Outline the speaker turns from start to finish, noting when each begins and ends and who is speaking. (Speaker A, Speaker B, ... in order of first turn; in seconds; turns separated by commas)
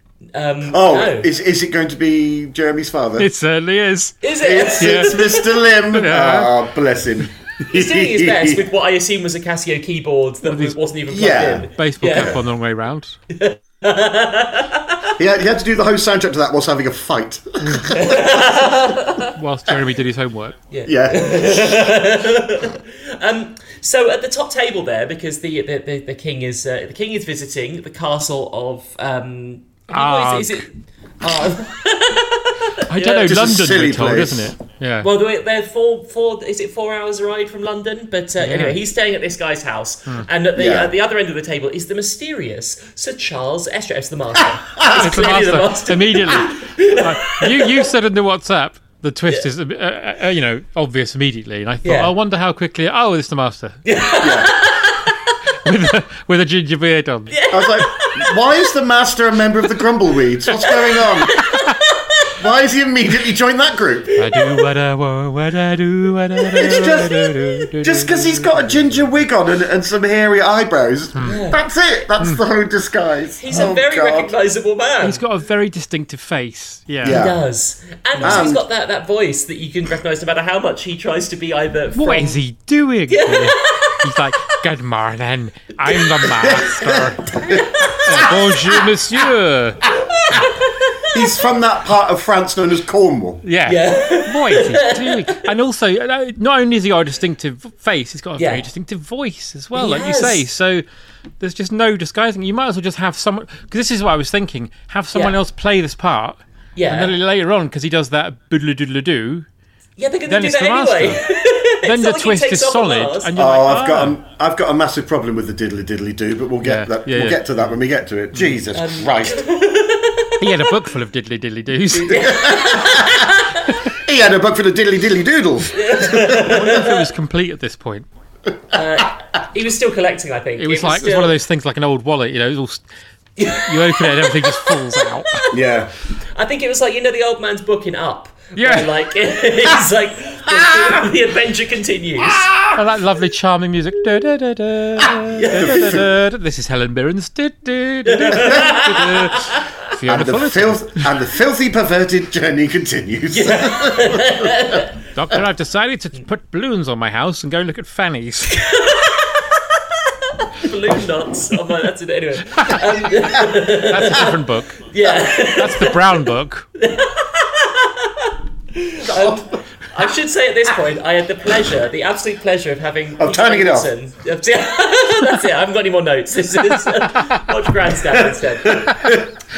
Speaker A: 0.3-1.3, Speaker B: 0.7-3.3, Speaker C: 3.2-5.3, Speaker A: 4.2-5.4, Speaker B: 4.4-8.6, Speaker C: 5.9-6.6, Speaker A: 7.7-12.3, Speaker C: 10.4-10.8, Speaker B: 11.1-12.3, Speaker C: 11.7-13.2, Speaker A: 13.3-15.1, Speaker B: 15.2-18.3, Speaker C: 17.6-17.9, Speaker A: 17.9-19.3, Speaker C: 19.2-20.6, Speaker A: 20.7-33.3, Speaker B: 20.9-22.1, Speaker C: 29.9-30.7, Speaker C: 32.9-35.1, Speaker B: 33.1-34.5, Speaker A: 35.0-47.9, Speaker C: 38.4-38.8, Speaker B: 40.5-40.9, Speaker C: 44.8-53.8, Speaker A: 51.8-52.1, Speaker A: 53.8-55.3, Speaker B: 54.2-54.5, Speaker C: 55.6-57.4, Speaker A: 57.3-58.4, Speaker B: 57.5-61.4, Speaker A: 60.6-62.3, Speaker B: 62.4-64.1, Speaker A: 64.1-64.6, Speaker C: 64.2-69.1, Speaker A: 66.4-67.7, Speaker B: 66.5-74.3, Speaker C: 71.1-71.4, Speaker A: 71.2-71.6, Speaker A: 73.4-75.2, Speaker C: 75.0-77.2, Speaker B: 77.0-77.4, Speaker A: 77.0-82.4, Speaker C: 78.2-78.5, Speaker B: 78.2-78.6, Speaker C: 81.9-87.2, Speaker A: 83.1-84.0, Speaker A: 85.8-86.5, Speaker B: 86.3-88.4, Speaker A: 87.3-88.3, Speaker C: 87.9-90.4, Speaker A: 90.0-91.1, Speaker B: 91.1-93.4, Speaker C: 93.4-100.8, Speaker A: 93.7-95.4, Speaker A: 98.4-98.7, Speaker A: 99.7-100.4, Speaker C: 101.4-109.5, Speaker A: 105.1-105.4, Speaker A: 106.8-107.1, Speaker A: 110.0-113.3, Speaker C: 110.3-111.2, Speaker C: 111.8-114.2, Speaker B: 113.3-119.4, Speaker C: 116.6-117.7, Speaker A: 118.7-120.4, Speaker C: 120.4-122.4, Speaker A: 121.9-123.7, Speaker B: 122.1-123.3, Speaker B: 123.9-126.5, Speaker A: 125.7-127.0, Speaker C: 126.5-128.1, Speaker A: 128.7-131.3, Speaker C: 130.6-132.8, Speaker A: 133.4-135.5, Speaker C: 133.6-135.4, Speaker B: 135.5-135.9, Speaker A: 136.3-142.5, Speaker C: 138.6-138.9, Speaker B: 140.5-141.0, Speaker B: 142.2-142.8, Speaker C: 142.7-151.1, Speaker B: 145.0-146.0, Speaker A: 145.3-146.0, Speaker A: 148.1-149.6, Speaker B: 150.1-154.8, Speaker A: 153.3-154.9, Speaker C: 155.1-158.7, Speaker A: 158.5-166.3, Speaker C: 162.5-166.7, Speaker A: 166.8-179.1, Speaker B: 169.1-169.5, Speaker B: 173.2-173.9, Speaker B: 178.7-179.3